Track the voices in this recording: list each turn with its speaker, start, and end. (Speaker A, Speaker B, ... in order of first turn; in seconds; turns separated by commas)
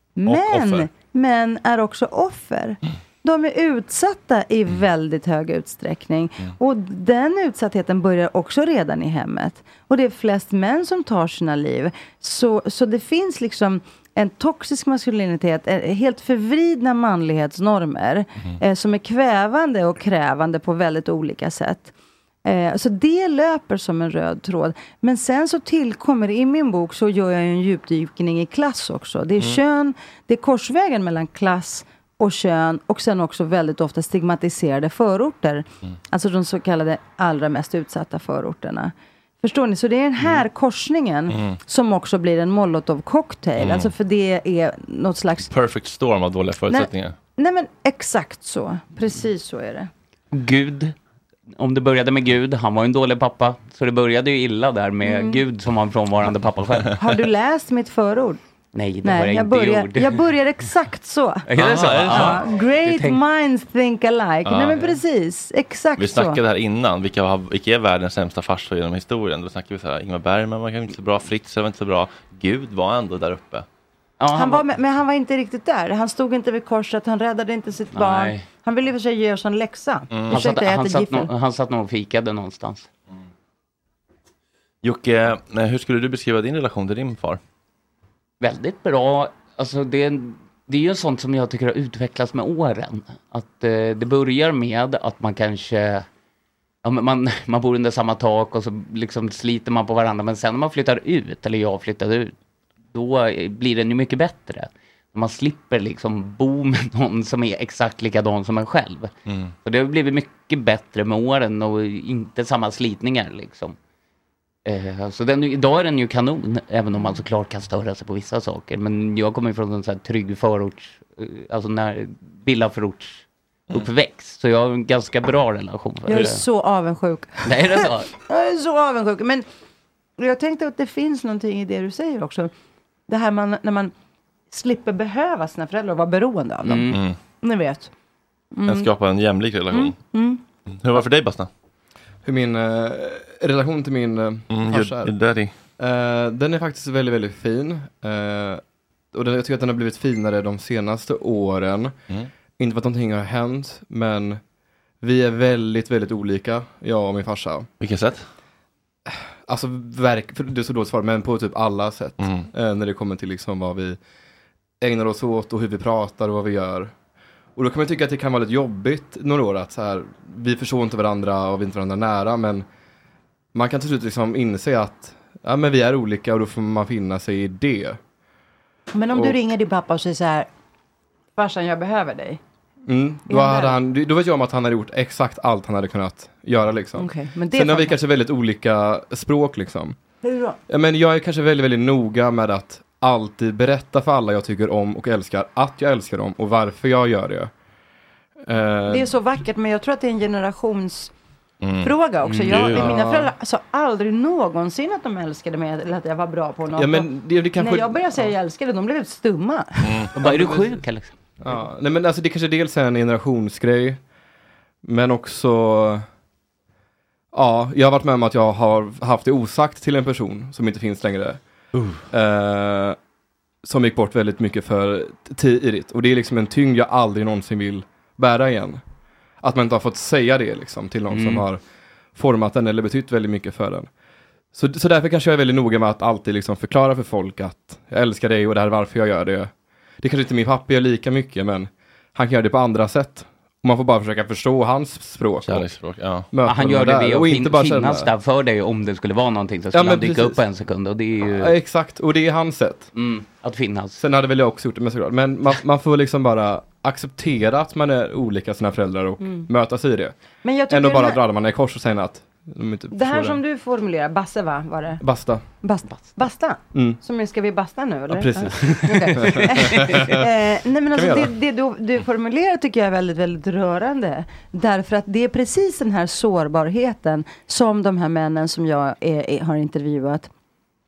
Speaker A: 0.2-21.9, Speaker B: 0.3-0.9, Speaker A: 22.4-45.5, Speaker B: 41.3-41.6, Speaker B: 43.6-43.9, Speaker B: 45.5-47.1, Speaker A: 46.7-49.9, Speaker C: 50.3-50.9, Speaker C: 51.6-57.0, Speaker A: 55.0-55.4, Speaker A: 57.0-58.4, Speaker C: 58.7-60.2, Speaker A: 59.0-61.5, Speaker C: 61.5-63.2, Speaker B: 61.6-62.5, Speaker A: 62.1-66.4, Speaker B: 64.4-64.9, Speaker B: 66.0-73.7, Speaker C: 74.2-74.6, Speaker A: 74.3-81.3, Speaker C: 77.9-78.5, Speaker B: 80.1-80.4, Speaker C: 80.3-82.9, Speaker B: 84.8-87.4, Speaker C: 88.4-96.0, Speaker C: 96.8-102.3, Speaker C: 102.9-109.1, Speaker B: 109.2-109.5, Speaker C: 109.6-113.8, Speaker C: 114.7-126.4, Speaker A: 126.1-129.4, Speaker C: 127.4-128.1, Speaker A: 130.2-132.5, Speaker A: 133.1-133.9, Speaker A: 134.5-137.9, Speaker C: 136.6-137.0, Speaker B: 136.9-137.1, Speaker A: 138.5-138.9, Speaker B: 138.7-139.9, Speaker A: 139.7-140.4, Speaker B: 140.7-141.5, Speaker D: 142.2-145.1, Speaker B: 144.5-145.5, Speaker D: 145.8-148.6, Speaker D: 149.1-151.9, Speaker D: 152.6-154.4, Speaker D: 155.0-157.7, Speaker B: 157.8-158.2, Speaker D: 159.1-164.0, Speaker B: 162.2-162.5, Speaker D: 164.8-166.9, Speaker D: 167.6-172.7, Speaker D: 173.5-178.0, Speaker A: 178.9-180.5, Speaker A: 181.3-182.4, Speaker D: 182.9-190.0, Speaker A: 183.3-183.8, Speaker A: 187.0-188.0, Speaker A: 190.2-190.6, Speaker D: 190.7-197.5, Speaker D: 198.4-199.1, Speaker A: 198.9-201.1, Speaker B: 201.6-201.9, Speaker A: 201.8-210.0, Speaker C: 202.2-202.7, Speaker B: 202.5-202.9, Speaker D: 202.7-203.3, Speaker D: 206.8-208.3, Speaker B: 209.8-210.1, Speaker C: 210.1-211.1, Speaker D: 210.2-210.7, Speaker D: 211.4-214.0, Speaker D: 214.8-216.0, Speaker D: 217.3-221.4, Speaker D: 222.1-223.0, Speaker D: 223.6-228.8, Speaker D: 229.4-231.6, Speaker C: 231.1-231.4, Speaker D: 232.1-233.9, Speaker D: 234.5-245.7, Speaker B: 245.4-246.3, Speaker D: 246.3-248.1, Speaker C: 246.5-251.5, Speaker D: 249.7-250.4, Speaker D: 251.4-252.9, Speaker C: 252.9-254.0, Speaker D: 254.0-260.1, Speaker A: 259.2-259.5, Speaker A: 260.4-261.2, Speaker D: 260.7-263.4, Speaker A: 262.9-265.0, Speaker D: 265.0-265.4, Speaker A: 265.6-280.3, Speaker D: 266.7-267.0, Speaker D: 268.1-270.3, Speaker C: 268.8-269.2, Speaker D: 270.9-271.3